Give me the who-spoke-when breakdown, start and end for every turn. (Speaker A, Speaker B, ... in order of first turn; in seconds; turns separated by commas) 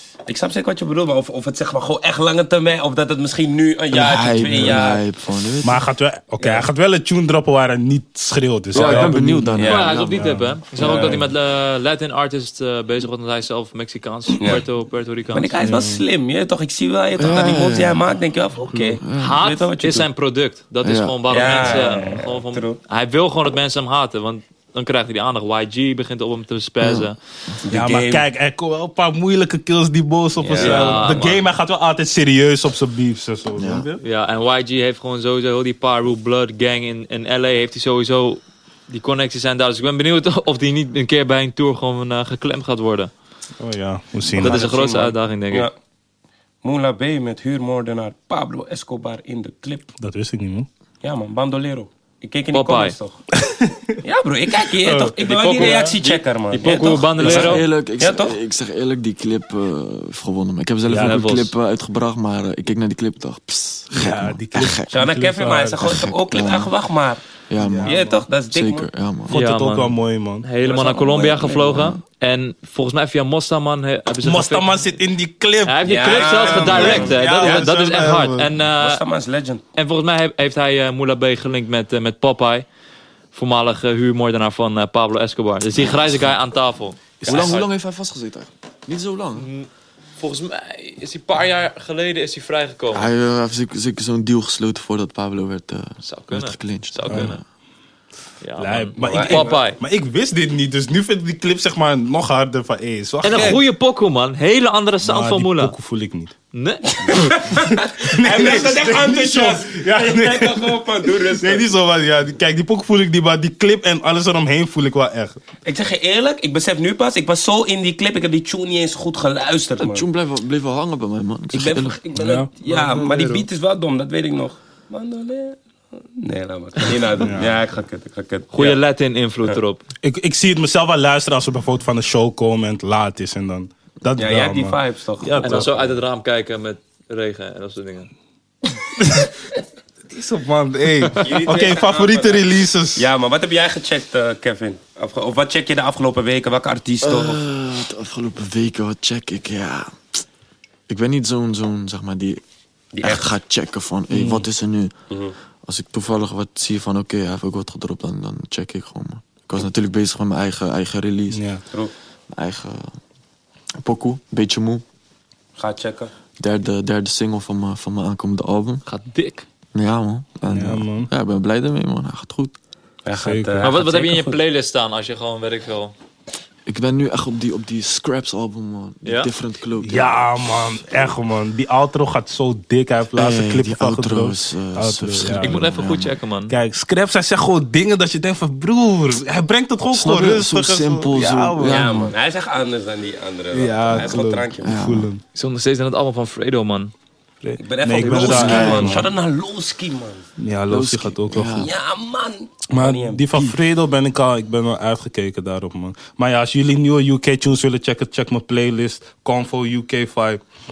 Speaker A: 0.3-5.0, Speaker B: 3.9-5.8, Speaker C: 4.5-4.8, Speaker C: 5.6-11.3, Speaker A: 6.4-6.7, Speaker B: 8.7-10.3, Speaker D: 8.8-15.5, Speaker A: 9.6-10.0, Speaker A: 10.8-11.2, Speaker A: 15.3-20.1, Speaker C: 15.6-16.0, Speaker B: 17.2-18.1, Speaker B: 19.0-19.4, Speaker D: 19.1-27.2, Speaker B: 20.8-21.2, Speaker A: 21.3-22.8, Speaker C: 21.4-22.2, Speaker B: 26.8-27.6, Speaker A: 27.6-28.2, Speaker C: 27.7-34.0, Speaker A: 30.4-31.1, Speaker D: 30.6-31.4, Speaker B: 33.6-33.9, Speaker D: 34.0-43.1, Speaker C: 43.6-44.6, Speaker D: 44.3-45.7, Speaker A: 44.4-45.7, Speaker A: 46.6-49.9, Speaker C: 50.0-50.7, Speaker A: 51.0-53.2, Speaker D: 52.5-52.9, Speaker C: 53.4-54.0, Speaker A: 54.0-58.4, Speaker C: 54.8-55.9, Speaker D: 55.2-57.6, Speaker B: 57.2-64.9, Speaker C: 60.9-61.2, Speaker D: 60.9-61.5, Speaker C: 63.9-65.8, Speaker A: 64.9-67.2, Speaker B: 65.8-66.7, Speaker B: 67.5-68.0, Speaker C: 67.6-68.2, Speaker A: 67.8-68.9, Speaker B: 68.5-69.4, Speaker C: 69.3-70.5, Speaker D: 69.3-74.8, Speaker A: 70.6-72.0, Speaker C: 74.2-78.5, Speaker D: 75.6-79.0, Speaker A: 75.8-77.7, Speaker A: 78.8-79.6, Speaker D: 79.8-82.7, Speaker D: 83.3-87.7, Speaker B: 85.8-86.2, Speaker C: 87.2-87.6, Speaker B: 87.2-89.5, Speaker D: 89.4-89.7, Speaker D: 90.2-93.1, Speaker B: 92.9-97.4, Speaker D: 96.0-97.4, Speaker C: 97.1-97.3, Speaker D: 98.4-99.8, Speaker C: 98.6-103.6, Speaker A: 99.0-99.6, Speaker D: 103.2-105.7, Speaker C: 105.0-106.3, Speaker D: 106.5-107.4, Speaker A: 107.0-111.7, Speaker C: 107.2-115.4, Speaker A: 115.6-120.0, Speaker B: 119.8-122.0, Speaker A: 121.5-128.8, Speaker C: 122.1-123.5, Speaker C: 127.2-127.5, Speaker D: 128.5-129.8, Speaker C: 130.0-135.7, Speaker A: 134.2-136.0, Speaker D: 135.4-138.1, Speaker C: 139.0-139.3, Speaker C: 140.1-143.1, Speaker A: 141.2-147.4, Speaker B: 147.0-150.2, Speaker B: 150.9-152.4, Speaker A: 152.9-153.3, Speaker B: 153.0-154.9, Speaker C: 154.1-154.4, Speaker A: 155.1-155.3, Speaker B: 155.6-161.4, Speaker C: 161.3-161.6, Speaker B: 162.3-163.0, Speaker B: 163.8-164.8, Speaker A: 165.6-166.1, Speaker B: 166.4-168.8, Speaker D: 168.9-169.4, Speaker B: 169.7-172.5, Speaker C: 170.5-171.1, Speaker A: 173.0-174.4, Speaker C: 173.2-173.7, Speaker D: 173.6-175.9, Speaker B: 176.7-180.2, Speaker D: 179.0-179.3, Speaker C: 179.8-185.6, Speaker B: 183.1-186.2, Speaker D: 185.4-186.5, Speaker C: 186.5-192.1, Speaker B: 189.9-192.1, Speaker A: 191.6-194.7, Speaker C: 193.5-195.2, Speaker B: 194.6-195.1, Speaker D: 195.3-196.9, Speaker C: 197.4-199.1, Speaker A: 197.6-200.2, Speaker B: 198.1-199.1, Speaker C: 200.4-201.7, Speaker B: 200.7-201.7, Speaker A: 201.6-203.5, Speaker C: 202.7-210.4